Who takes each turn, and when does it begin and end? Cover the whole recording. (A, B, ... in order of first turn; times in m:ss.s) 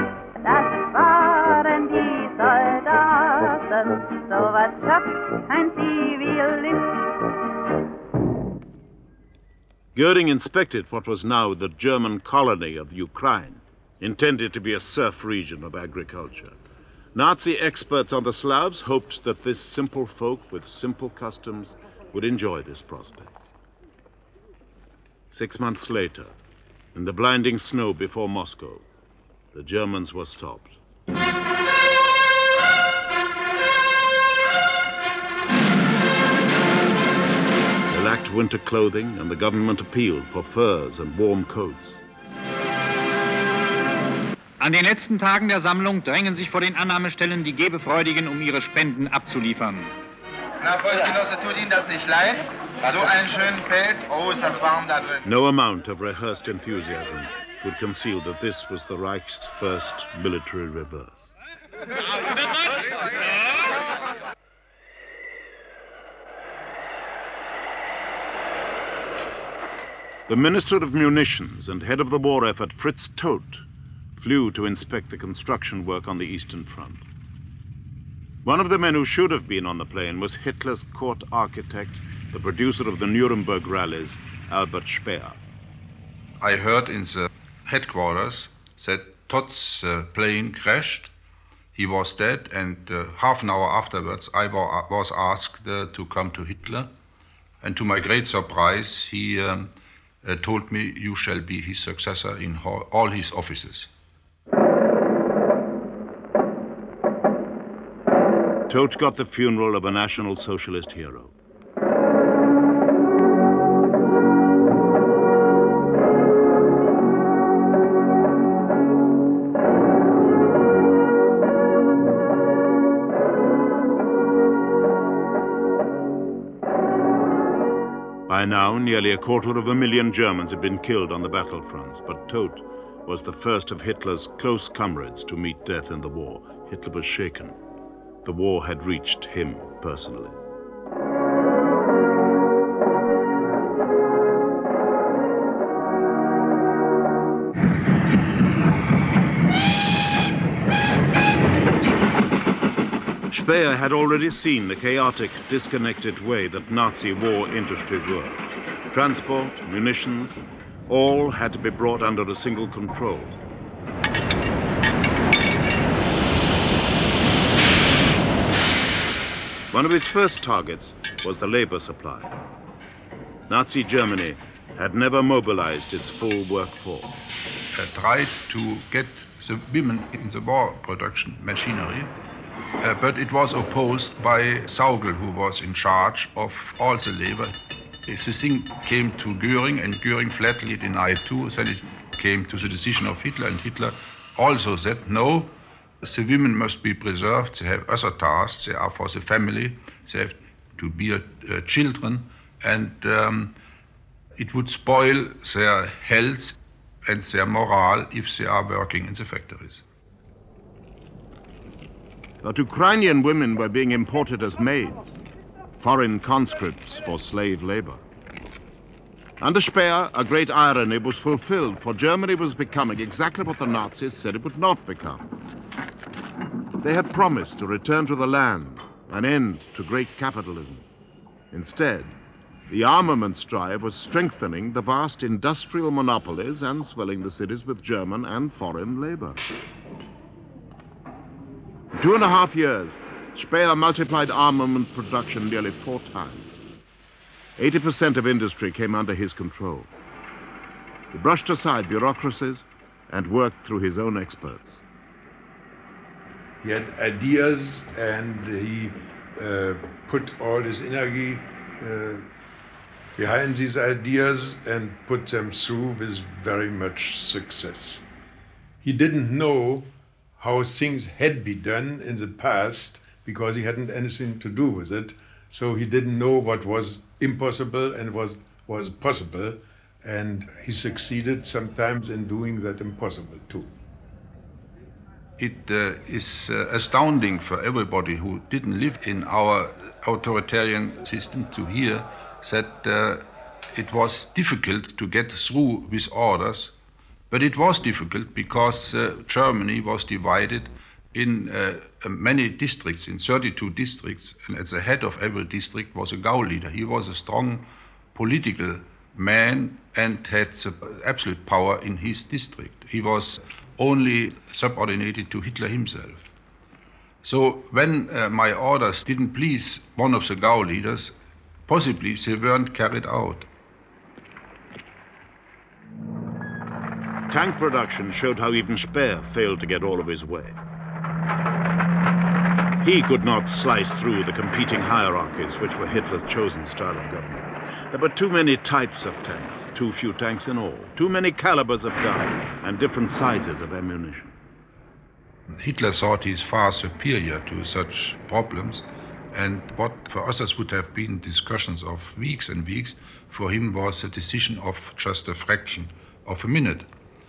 0:00.4-0:07.0 A
0:09.9-0:16.6 B
0:17.1-0:23.3 B
0:25.3-0:26.4 B
0:26.9-0:28.8 B
0:29.5-0:30.8 B
0:37.9-0:42.0 B
0:44.6-0:49.9 C
0:50.6-0:55.2 D
0:55.2-1:01.3 B
1:10.3-1:13.6 B
1:14.2-1:17.0 B
1:18.4-1:25.4 B
1:26.4-1:31.1 E
1:31.7-1:36.9 E
1:37.6-1:43.9 E
1:48.7-1:51.3 B
2:08.3-2:17.6 B
2:18.2-2:20.4 B
2:33.3-2:43.4 B
2:49.7-2:52.3 B
2:53.5-2:57.2 B
2:57.7-3:02.1 E
3:02.8-3:07.5 E
3:08.1-3:23.6 E
3:24.4-3:29.8 E
3:32.4-3:35.2 B
3:35.8-3:38.0 B
3:39.4-3:45.2 B
3:46.8-3:50.8 B
3:51.5-3:52.1 B
3:52.7-3:59.4 B
4:01.9-4:06.5 B
4:07.6-4:09.9 B
4:11.1-4:14.8 B
4:16.6-4:22.3 F
4:23.2-4:28.0 F
4:28.8-4:43.7 F
4:45.4-4:56.7 E
4:57.3-5:16.3 E
5:17.2-5:23.5 E
5:27.3-5:30.6 B
5:32.8-5:44.4 B
5:45.5-5:56.9 E